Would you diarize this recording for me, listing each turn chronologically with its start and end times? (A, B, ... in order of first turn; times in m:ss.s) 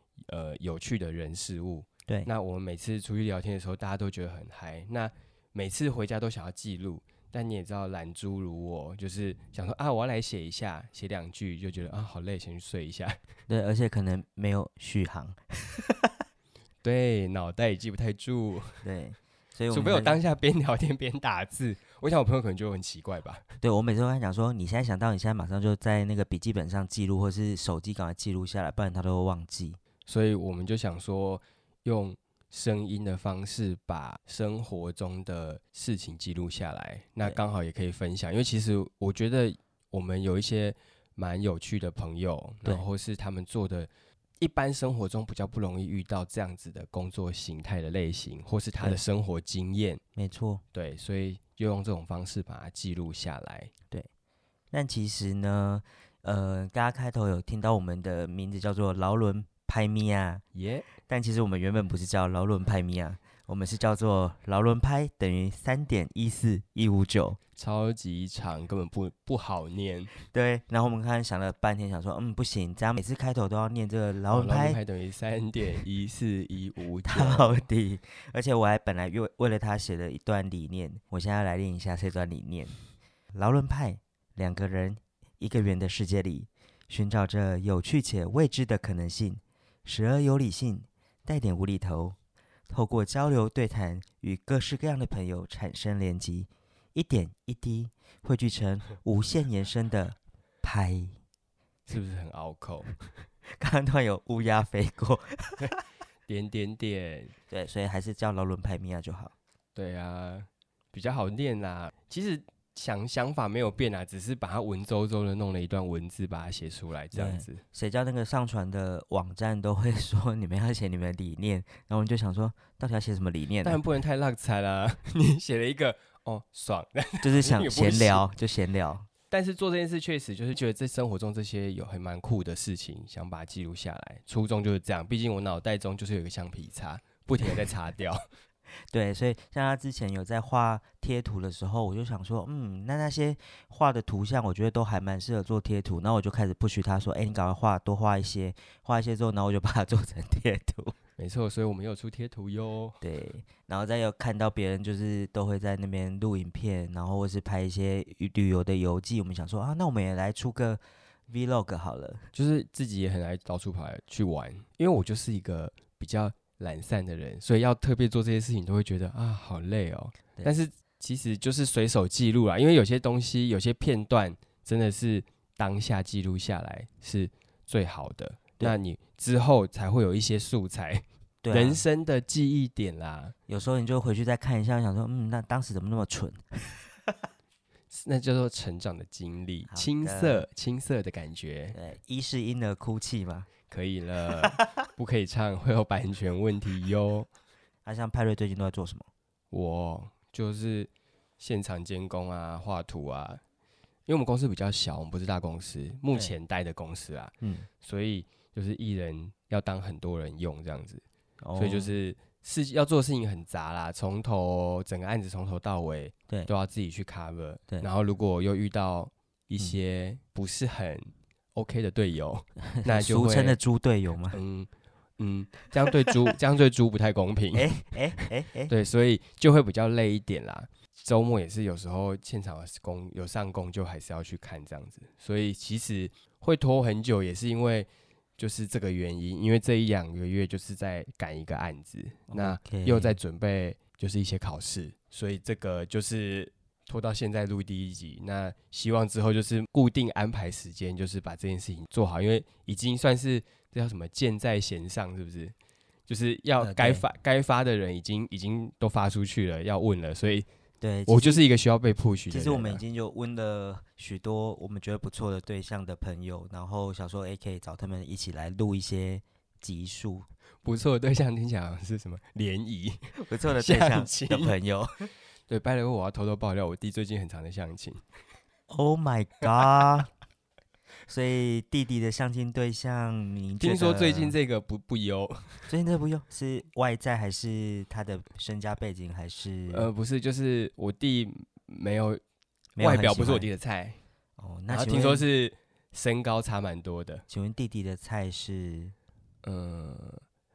0:00.3-0:13.2 A
0:13.5-0:16.2 B
0:16.8-0:18.8 A
0:18.8-0:20.2 B
0:19.7-0:23.4 A
0:23.6-0:29.8 B
0:30.1-0:50.0 A
0:50.2-0:50.6 B
0:50.7-0:53.7 A
0:54.7-1:00.4 B
1:00.5-1:00.9 A
1:01.1-1:07.4 B
1:07.6-1:10.1 A
1:10.3-1:14.8 B
1:14.3-1:17.6 A
1:17.1-1:22.8 B
1:23.3-1:32.2 B
1:32.7-1:41.2 B
1:41.9-1:42.9 A
1:43.6-1:45.8 B
1:46.3-1:47.3 A
1:47.5-1:49.3 B
1:49.8-1:57.6 A
1:57.1-2:03.8 B
2:03.6-2:08.3 A
2:07.2-2:09.1 B
2:09.3-2:18.2 A
2:18.9-2:30.9 B
2:31.2-2:33.0 A
2:33.0-2:42.3 B
2:42.3-3:03.4 A
3:01.4-3:01.8 B
3:03.5-3:07.1 B
3:07.9-3:11.8 A
3:09.7-3:10.5 B
3:11.8-3:13.5 B
3:13.7-3:17.3 A
3:17.8-3:19.1 B
3:19.5-3:23.4 A
3:24.1-3:31.0 A
3:27.4-3:27.7 B
3:31.4-3:31.9 B
3:31.6-3:43.6 A
3:42.8-3:44.4 B
3:44.3-4:15.5 A
3:47.5-3:48.7 B
4:02.3-4:03.2 B
4:16.1-4:20.5 A
4:16.6-4:17.0 B
4:20.8-4:21.4 B
4:21.1-4:22.8 A
4:22.3-4:30.3 B
4:30.6-4:33.0 A
4:33.2-4:35.1 B
4:33.6-4:34.6 A
4:35.5-4:38.0 A
4:38.7-4:40.1 B
4:41.1-4:44.4 B
4:43.6-4:45.7 A
4:45.7-4:49.9 B
4:49.7-4:52.2 A
4:52.8-4:53.5 B
4:52.8-4:54.0 A
4:54.4-4:55.2 B
4:54.7-4:57.2 A
4:57.3-4:59.0 B
4:59.4-5:00.2 A